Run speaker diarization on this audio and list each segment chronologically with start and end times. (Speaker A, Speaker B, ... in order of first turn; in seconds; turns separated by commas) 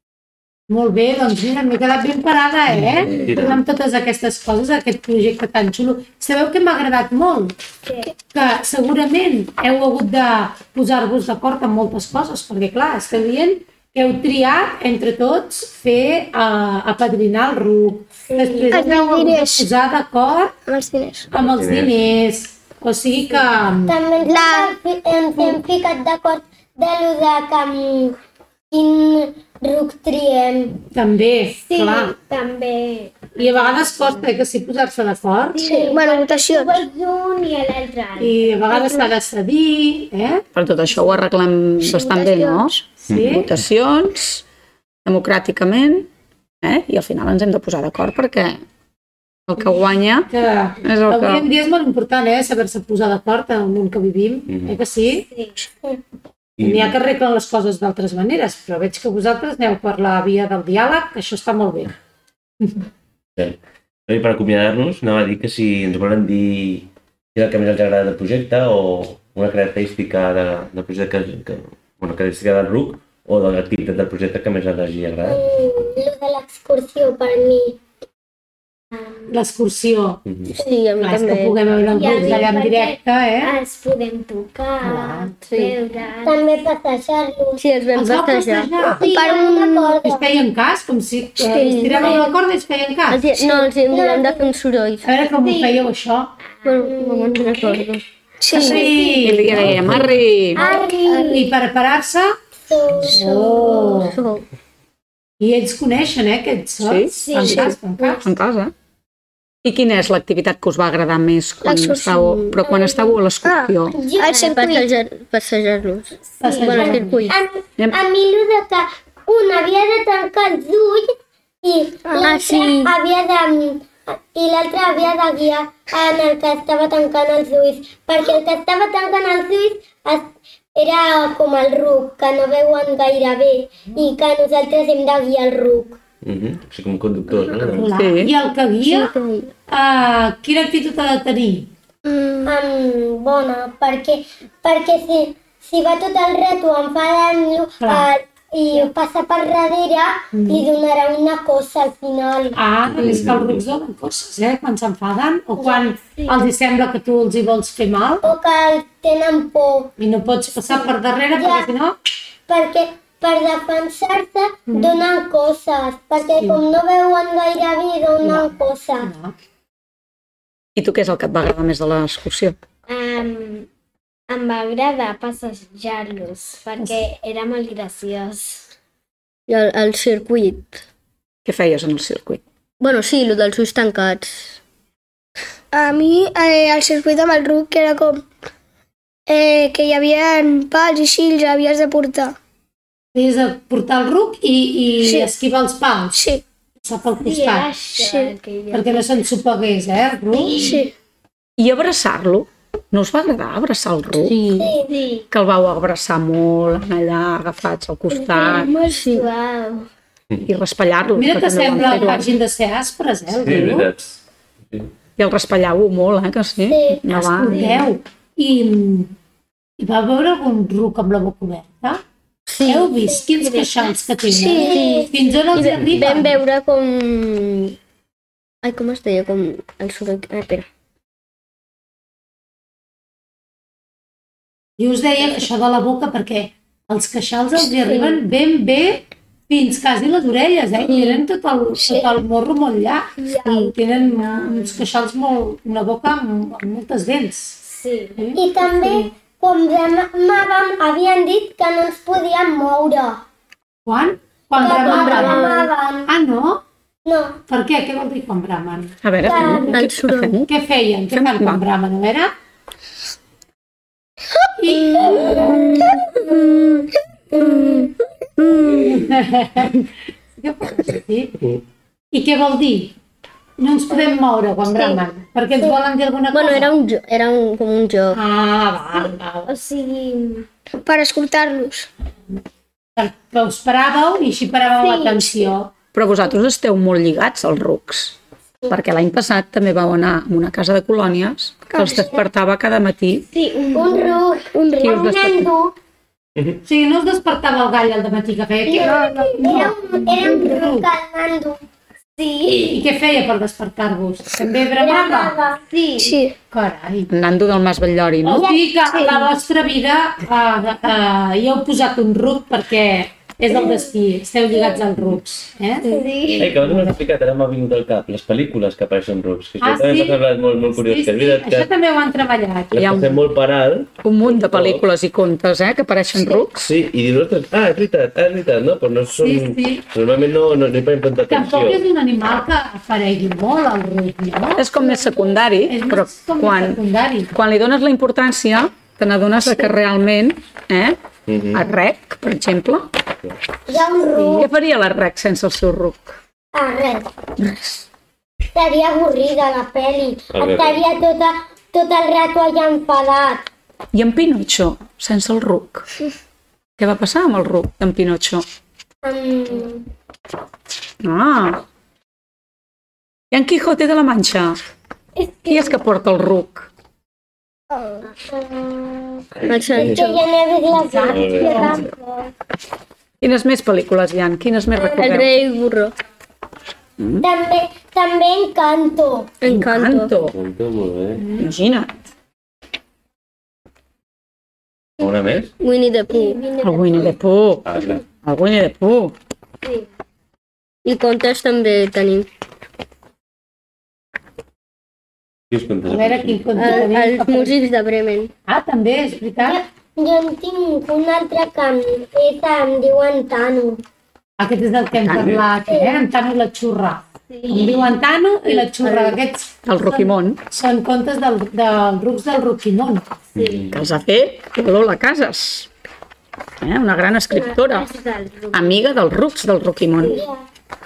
Speaker A: 0.7-7.6, Speaker B: 2.7-3.6, Speaker C: 7.9-8.1, Speaker A: 8.3-20.6, Speaker D: 18.3-18.9, Speaker E: 18.7-19.7, Speaker E: 20.7-21.3, Speaker A: 21.3-24.0, Speaker B: 21.4-22.0, Speaker D: 23.9-28.2, Speaker E: 24.3-24.8, Speaker D: 28.7-30.8, Speaker A: 30.9-32.2, Speaker C: 31.6-34.4, Speaker A: 33.3-35.7, Speaker C: 35.5-39.1, Speaker E: 35.7-36.9, Speaker A: 38.2-40.4, Speaker F: 40.5-44.4, Speaker A: 43.0-43.5, Speaker B: 43.1-43.5, Speaker F: 45.0-46.1, Speaker F: 46.6-48.6, Speaker F: 49.5-50.3, Speaker A: 50.2-55.3, Speaker F: 50.8-51.5, Speaker B: 54.5-54.8, Speaker C: 55.3-55.6, Speaker B: 56.6-57.0, Speaker A: 56.6-61.9, Speaker A: 62.6-62.9, Speaker B: 63.4-75.4, Speaker D: 75.2-77.8, Speaker A: 79.3-80.2, Speaker B: 80.3-80.5, Speaker G: 80.5-81.6, Speaker A: 81.0-83.6, Speaker C: 81.9-86.4, Speaker A: 84.8-85.3, Speaker G: 85.4-85.8, Speaker D: 86.2-87.6, Speaker G: 87.6-88.8, Speaker A: 88.0-89.0, Speaker D: 88.8-90.3, Speaker E: 89.0-90.0, Speaker A: 90.0-93.2, Speaker G: 91.4-92.3, Speaker D: 91.5-92.3, Speaker G: 93.1-95.1, Speaker D: 93.4-94.5, Speaker A: 95.0-96.4, Speaker C: 95.3-95.9, Speaker C: 96.5-97.0, Speaker G: 96.6-98.9, Speaker D: 96.8-97.8, Speaker E: 98.4-99.1, Speaker A: 98.5-100.0, Speaker F: 99.2-100.6, Speaker B: 99.5-100.2, Speaker D: 100.6-101.5, Speaker C: 100.6-101.5, Speaker A: 101.3-102.3, Speaker D: 102.7-104.1, Speaker A: 103.0-104.2, Speaker G: 103.9-104.5, Speaker A: 105.4-108.3, Speaker F: 106.8-108.7, Speaker C: 107.2-107.7, Speaker F: 109.6-114.0, Speaker E: 111.7-112.5, Speaker C: 112.7-113.0, Speaker E: 113.4-114.9, Speaker D: 113.9-114.8, Speaker G: 114.5-117.4, Speaker A: 116.4-117.2, Speaker C: 116.4-117.0, Speaker D: 117.3-136.0, Speaker G: 122.1-123.0, Speaker B: 136.2-137.9, Speaker A: 137.6-139.1, Speaker F: 137.8-138.3, Speaker G: 138.8-139.5, Speaker A: 139.7-141.7, Speaker E: 142.1-142.5, Speaker D: 142.5-152.6, Speaker A: 147.8-148.1, Speaker A: 150.3-150.7, Speaker A: 152.6-158.3, Speaker B: 152.9-153.6, Speaker C: 155.6-156.5, Speaker D: 158.2-159.9, Speaker A: 160.0-161.9, Speaker D: 160.7-161.7, Speaker D: 162.5-169.1, Speaker A: 164.7-165.0, Speaker A: 166.4-166.6, Speaker A: 168.2-169.3, Speaker F: 170.8-172.6, Speaker C: 172.9-173.7, Speaker C: 174.3-178.7, Speaker G: 179.5-180.8, Speaker F: 181.4-182.4, Speaker G: 182.8-184.6, Speaker E: 185.7-188.2, Speaker E: 189.3-192.4, Speaker A: 193.1-196.2, Speaker E: 195.0-195.3, Speaker E: 196.1-196.4, Speaker A: 196.8-197.8, Speaker C: 197.2-199.3, Speaker E: 197.9-198.3, Speaker A: 198.7-200.8, Speaker E: 200.4-200.9, Speaker F: 201.6-204.4, Speaker G: 204.2-204.8, Speaker D: 204.6-204.9, Speaker C: 204.8-205.3, Speaker F: 205.3-208.7, Speaker C: 208.1-209.9, Speaker G: 208.9-209.3, Speaker F: 210.4-212.3, Speaker A: 211.2-213.9, Speaker C: 211.8-212.2, Speaker B: 213.3-214.9, Speaker F: 215.2-217.7, Speaker D: 216.7-217.0, Speaker A: 217.1-219.1, Speaker C: 217.5-217.8, Speaker A: 219.8-222.0, Speaker G: 222.5-223.7, Speaker A: 222.6-226.4, Speaker G: 224.3-227.8, Speaker D: 224.3-225.1, Speaker G: 228.6-230.7, Speaker A: 234.8-247.6, Speaker G: 237.7-238.2, Speaker C: 243.2-244.8, Speaker C: 247.6-248.8, Speaker A: 248.2-248.4, Speaker D: 248.4-253.2, Speaker A: 253.9-256.6, Speaker D: 254.6-256.1, Speaker E: 254.6-255.6, Speaker D: 257.1-257.4, Speaker A: 257.5-259.8, Speaker F: 259.0-260.5, Speaker D: 259.2-259.8, Speaker G: 259.7-260.4, Speaker A: 260.4-262.3, Speaker F: 261.1-261.6, Speaker A: 264.6-265.9, Speaker G: 265.3-268.9, Speaker A: 268.7-271.4, Speaker A: 272.1-272.9, Speaker A: 273.6-276.8, Speaker G: 276.3-278.2, Speaker A: 278.1-279.5, Speaker C: 279.0-280.5, Speaker E: 280.8-281.9, Speaker A: 283.0-285.7, Speaker C: 284.8-285.5, Speaker F: 285.9-288.2, Speaker F: 288.7-293.3, Speaker E: 291.7-292.2, Speaker C: 293.3-294.2, Speaker D: 293.7-295.8, Speaker E: 294.5-295.0, Speaker F: 294.8-295.5, Speaker A: 296.6-300.9, Speaker D: 298.7-301.6, Speaker E: 298.7-300.6, Speaker C: 302.2-302.8, Speaker A: 302.5-305.4, Speaker D: 304.8-305.6, Speaker C: 304.9-306.1, Speaker E: 306.0-306.4, Speaker A: 306.5-307.1, Speaker F: 307.1-308.5, Speaker A: 308.2-315.9, Speaker D: 308.4-309.2, Speaker C: 315.8-316.6, Speaker B: 316.4-321.7, Speaker A: 316.5-317.0, Speaker A: 319.6-323.2, Speaker B: 322.7-324.8, Speaker F: 322.8-323.1, Speaker F: 324.0-326.6, Speaker B: 326.5-331.8, Speaker A: 329.2-329.8, Speaker A: 331.3-334.6, Speaker F: 334.6-336.8, Speaker A: 335.7-337.3, Speaker F: 337.3-341.0, Speaker B: 341.3-341.7, Speaker F: 341.5-342.9, Speaker D: 343.7-344.5, Speaker F: 344.1-346.2, Speaker D: 346.5-347.1, Speaker F: 347.4-347.8, Speaker D: 348.6-353.5, Speaker B: 350.3-350.8, Speaker F: 353.9-355.9, Speaker F: 356.8-358.4, Speaker D: 359.0-359.9, Speaker F: 361.0-361.6, Speaker F: 363.3-364.6, Speaker C: 365.4-365.8, Speaker F: 365.5-366.7, Speaker E: 367.7-368.0, Speaker D: 368.2-372.1, Speaker G: 369.5-370.2, Speaker A: 370.8-371.9, Speaker B: 371.1-371.8, Speaker F: 373.2-375.3, Speaker D: 374.8-375.2, Speaker G: 375.0-375.9, Speaker F: 377.0-377.3, Speaker D: 377.2-379.3, Speaker G: 379.4-380.1, Speaker F: 379.5-380.4, Speaker B: 380.2-381.3, Speaker F: 381.3-381.9, Speaker B: 385.0-385.5, Speaker G: 385.6-386.4, Speaker C: 386.1-387.0, Speaker D: 386.2-386.7, Speaker F: 386.6-389.1, Speaker B: 387.6-388.0, Speaker G: 390.9-392.3, Speaker B: 395.5-396.5, Speaker A: 395.9-397.6, Speaker G: 396.5-398.3, Speaker A: 398.5-399.6, Speaker D: 399.4-403.8, Speaker A: 404.4-413.1, Speaker F: 404.9-405.4, Speaker D: 405.7-406.0, Speaker C: 407.3-408.0, Speaker C: 408.9-409.1, Speaker F: 409.6-410.4, Speaker B: 413.4-413.9, Speaker C: 413.4-413.7, Speaker F: 413.7-415.7, Speaker F: 416.6-418.0, Speaker C: 417.3-418.8, Speaker F: 418.5-420.2, Speaker D: 420.1-420.4